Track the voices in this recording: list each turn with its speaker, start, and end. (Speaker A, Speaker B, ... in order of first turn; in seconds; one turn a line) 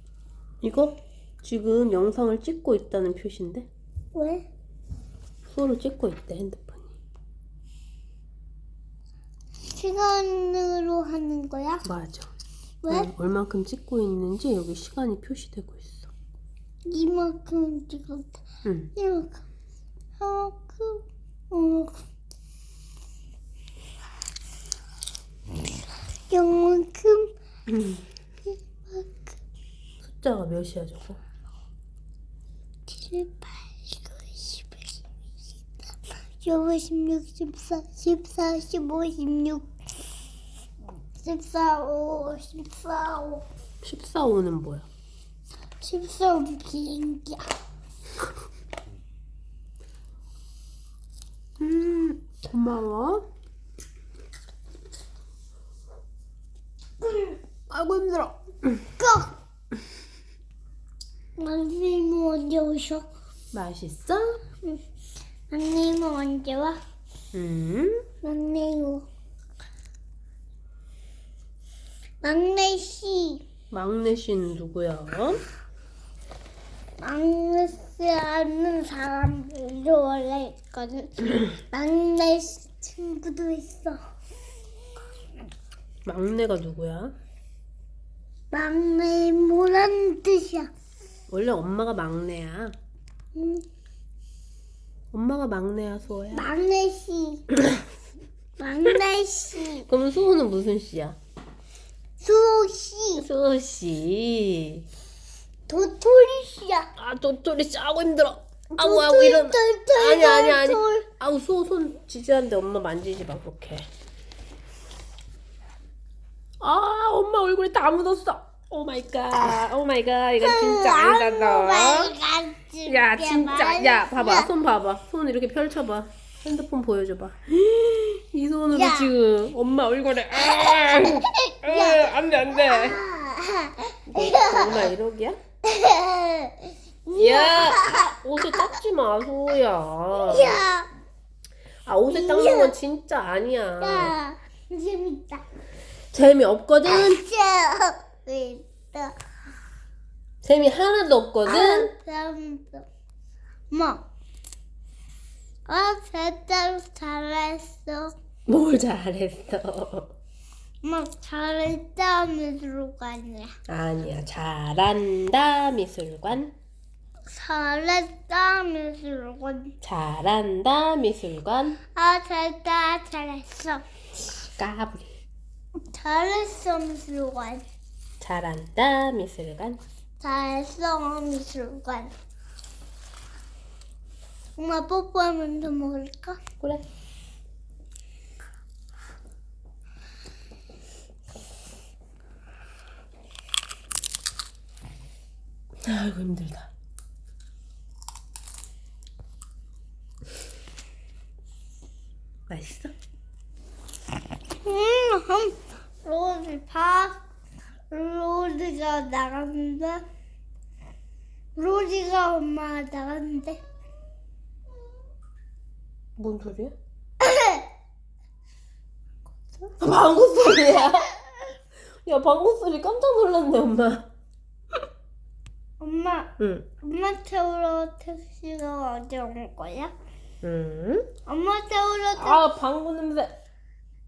Speaker A: 0.6-3.7
Speaker B: 4.1-4.5
Speaker A: 5.5-6.9
Speaker B: 9.6-11.8
Speaker A: 11.8-12.3
Speaker B: 12.8-13.1
Speaker A: 12.9-16.1
Speaker B: 16.9-18.4
Speaker A: 18.6-18.9
Speaker B: 18.9-19.4
Speaker B: 20.2-22.0
Speaker B: 26.3-27.3
Speaker A: 27.7-28.0
Speaker B: 28.9-29.3
Speaker A: 30.0-31.2
Speaker B: 32.9-34.9
Speaker B: 36.4-39.7
Speaker B: 41.2-43.4
Speaker A: 43.8-44.9
Speaker B: 45.8-47.5
Speaker A: 51.6-53.2
Speaker A: 57.0-58.8
Speaker B: 59.0-59.4
Speaker B: 61.4-63.0
Speaker A: 63.5-64.4
Speaker B: 65.5-66.8
Speaker A: 67.3-68.0
Speaker B: 68.2-69.0
Speaker B: 72.2-73.4
Speaker A: 73.7-75.4
Speaker B: 77.0-84.0
Speaker A: 86.1-87.1
Speaker B: 88.5-90.7
Speaker A: 91.3-92.7
Speaker B: 93.3-93.6
Speaker A: 95.1-96.5
Speaker B: 96.3-97.4
Speaker B: 98.6-99.9
Speaker A: 99.9-101.2
Speaker B: 102.2-103.3
Speaker A: 103.2-104.9
Speaker B: 105.7-106.9
Speaker A: 107.0-113.9
Speaker B: 108.8-111.1
Speaker A: 116.6-122.2
Speaker B: 120.4-124.5
Speaker A: 122.9-133.0
Speaker B: 128.7-129.1
Speaker B: 130.6-134.9
Speaker A: 134.1-135.4
Speaker B: 135.6-138.7
Speaker A: 137.2-140.6
Speaker B: 140.2-140.9
Speaker A: 141.9-144.1
Speaker B: 142.1-142.8
Speaker B: 143.8-145.4
Speaker A: 146.1-147.2
Speaker B: 146.9-149.2
Speaker A: 150.4-151.9
Speaker B: 151.5-152.9
Speaker B: 153.7-154.0
Speaker B: 155.7-158.1
Speaker A: 158.5-160.1
Speaker B: 160.8-163.5
Speaker A: 163.7-166.5
Speaker B: 167.3-169.7
Speaker A: 169.8-171.8
Speaker B: 171.9-173.8
Speaker A: 174.6-175.1
Speaker B: 175.9-177.7
Speaker A: 178.2-179.8
Speaker B: 180.2-182.1
Speaker B: 184.6-186.4
Speaker A: 195.8-196.7
Speaker A: 202.5-202.9
Speaker B: 204.6-207.2
Speaker B: 207.9-210.0
Speaker B: 211.6-213.6
Speaker A: 216.2-216.7
Speaker B: 217.2-217.7
Speaker A: 219.7-221.2
Speaker A: 222.1-224.1
Speaker B: 225.8-229.9
Speaker A: 226.4-226.7
Speaker A: 230.4-231.1
Speaker B: 231.3-232.5
Speaker A: 232.2-233.4